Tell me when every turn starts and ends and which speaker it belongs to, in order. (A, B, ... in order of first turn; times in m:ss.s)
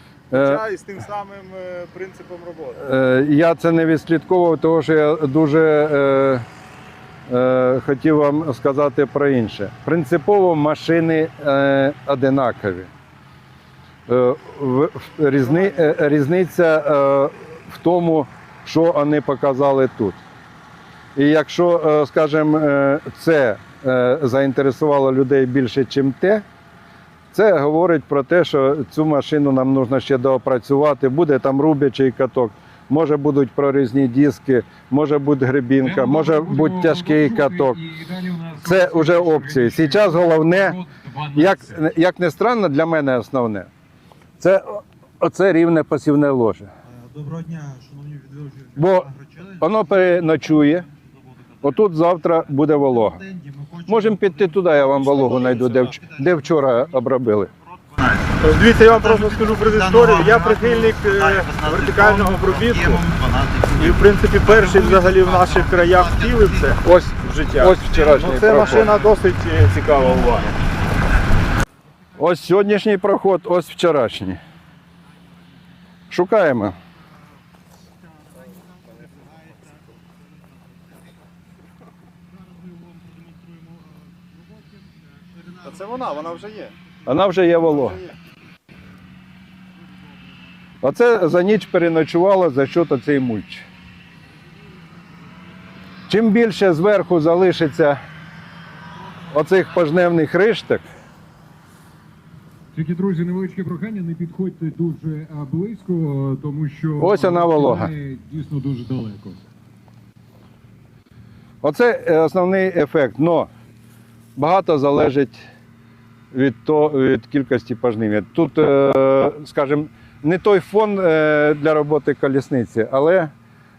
0:00.3-0:02.8 A
0:00.3-0:00.6 B
0:02.8-0:06.4 B
0:07.3-0:12.9 B
0:14.1-0:20.2 B
0:21.2-0:26.4 B
0:27.3-0:37.8 B
0:35.8-0:41.8 C
0:38.6-0:40.8 B
0:41.4-0:43.7 B
0:44.4-0:46.7 B
0:46.9-0:49.6 D
0:48.8-0:49.1 B
0:49.6-0:50.9 B
0:51.6-0:53.2 B
0:53.8-0:57.5 B
0:58.4-1:03.1 A
1:03.7-1:10.6 A
1:06.8-1:08.9 B
1:12.2-1:14.4 B
1:16.1-1:16.8 B
1:25.6-1:26.7 A
1:27.1-1:28.0 B
1:27.8-1:28.1 A
1:30.8-1:33.6 B
1:36.1-1:38.0 B
1:39.3-1:40.8 B
1:42.7-1:49.4 C
1:47.0-1:47.9 B
1:51.6-1:53.5 B
1:54.4-1:55.4 B
1:56.3-2:03.3 B